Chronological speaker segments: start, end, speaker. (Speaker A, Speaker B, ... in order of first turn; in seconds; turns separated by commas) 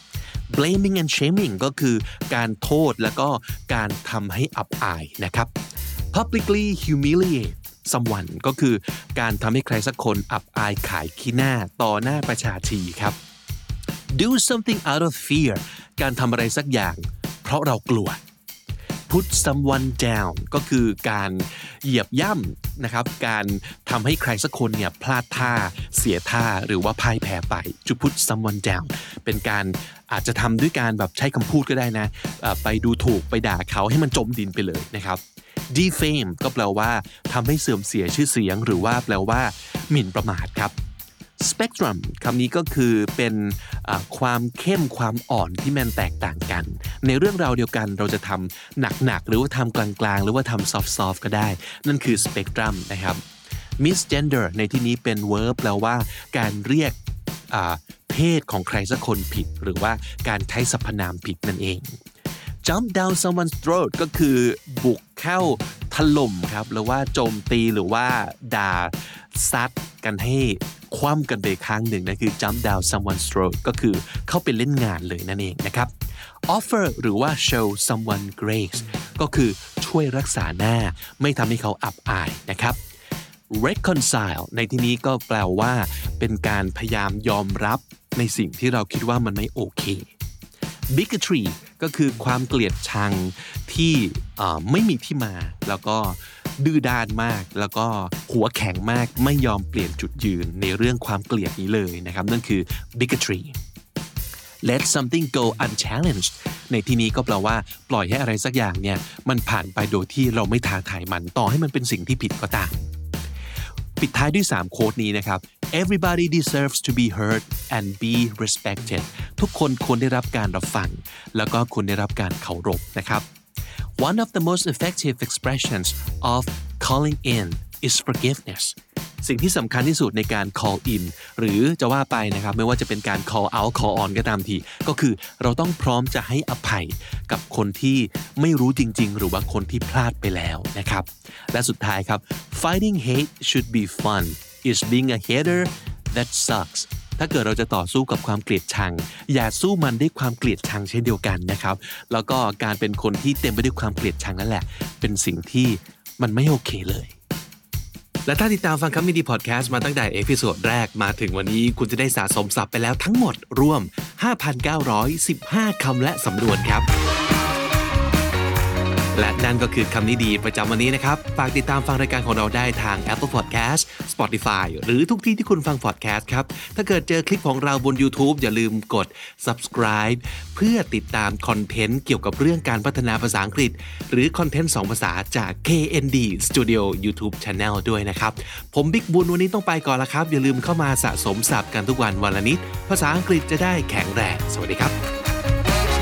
Speaker A: 0.5-5.5, Speaker A: 6.1-13.2, Speaker A: 14.1-18.2, Speaker A: 19.1-40.7, Speaker A: 41.4-53.2, Speaker A: 53.8-57.0, Speaker A: 57.5-62.0, Speaker A: 62.6-75.9, Speaker A: 76.5-82.8, Speaker A: 83.5-90.1, Speaker A: 90.9-103.5, Speaker A: 104.6-112.8, Speaker A: 114.0-123.3, Speaker A: 124.0-157.1, Speaker A: 158.2-166.9, Speaker A: 169.1-194.9